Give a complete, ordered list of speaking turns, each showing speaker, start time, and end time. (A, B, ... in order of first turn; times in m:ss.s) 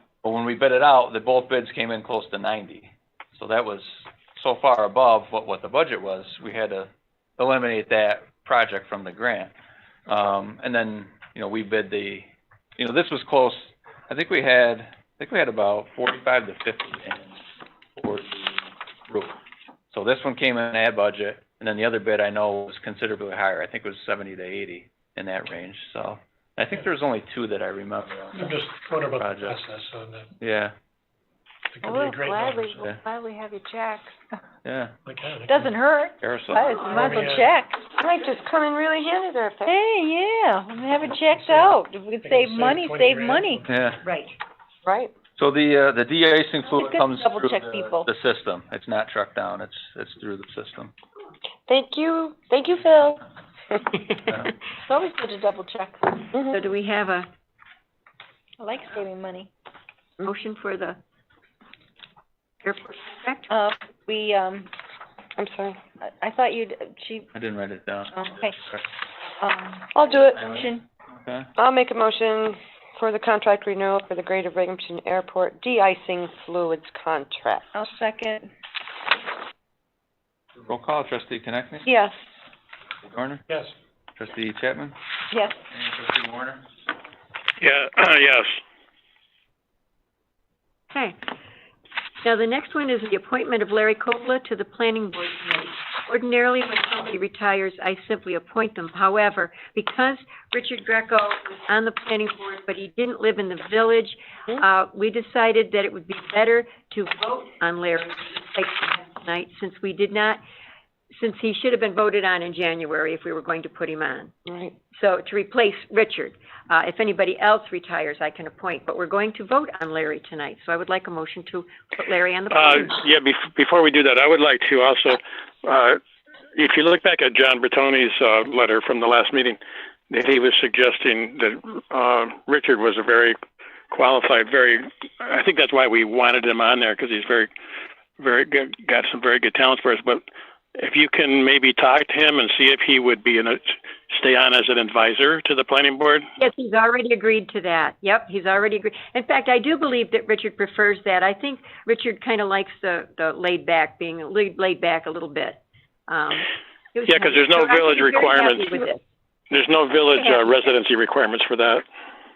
0:00.2-0:09.5 A
0:10.1-0:17.4 A
0:18.0-0:19.4 A
0:19.9-0:28.6 A
0:28.3-0:30.3 B
0:29.2-0:29.6 A
0:30.4-0:30.7 A
0:31.7-0:32.9 B
0:31.8-0:34.3 C
0:34.6-0:34.9 A
0:35.0-0:35.8 B
0:35.5-0:37.8 C
0:36.2-0:37.1 A
0:36.7-0:37.6 B
0:38.0-0:39.7 D
0:39.6-0:43.7 C
0:41.0-0:43.9 B
0:43.7-0:44.0 A
0:44.0-0:44.3 E
0:44.8-0:45.1 D
0:45.4-0:50.9 A
0:46.6-0:48.1 C
0:51.6-0:53.2 D
0:53.7-0:54.2 D
0:54.3-0:54.5 A
0:54.9-0:56.3 C
0:56.3-0:56.6 D
0:56.5-0:57.3 E
0:58.6-0:59.5 C
1:00.2-1:01.0 E
1:02.6-1:03.5 E
1:03.5-1:04.7 C
1:05.4-1:05.8 D
1:06.0-1:07.3 C
1:07.3-1:08.8 A
1:08.1-1:08.6 C
1:09.4-1:10.8 C
1:09.9-1:10.6 D
1:11.2-1:11.5 A
1:11.6-1:17.7 D
1:17.7-1:18.5 C
1:20.6-1:21.9 A
1:21.8-1:22.1 D
1:23.0-1:23.4 A
1:23.5-1:23.7 B
1:24.2-1:25.0 A
1:25.3-1:25.6 C
1:25.7-1:26.6 A
1:27.6-1:28.6 F
1:30.9-1:31.2 E
1:32.2-1:50.4 E
1:51.2-1:54.3 E
1:54.4-1:54.7 D
1:54.9-2:03.0 E
2:02.5-2:06.0 F
2:06.5-2:13.4 F
2:13.9-2:17.5 F
2:18.2-2:20.2 F
2:20.7-2:26.3 F
2:26.4-2:39.0 E
2:37.0-2:38.8 F
2:39.5-2:41.8 F
2:40.1-2:40.7 E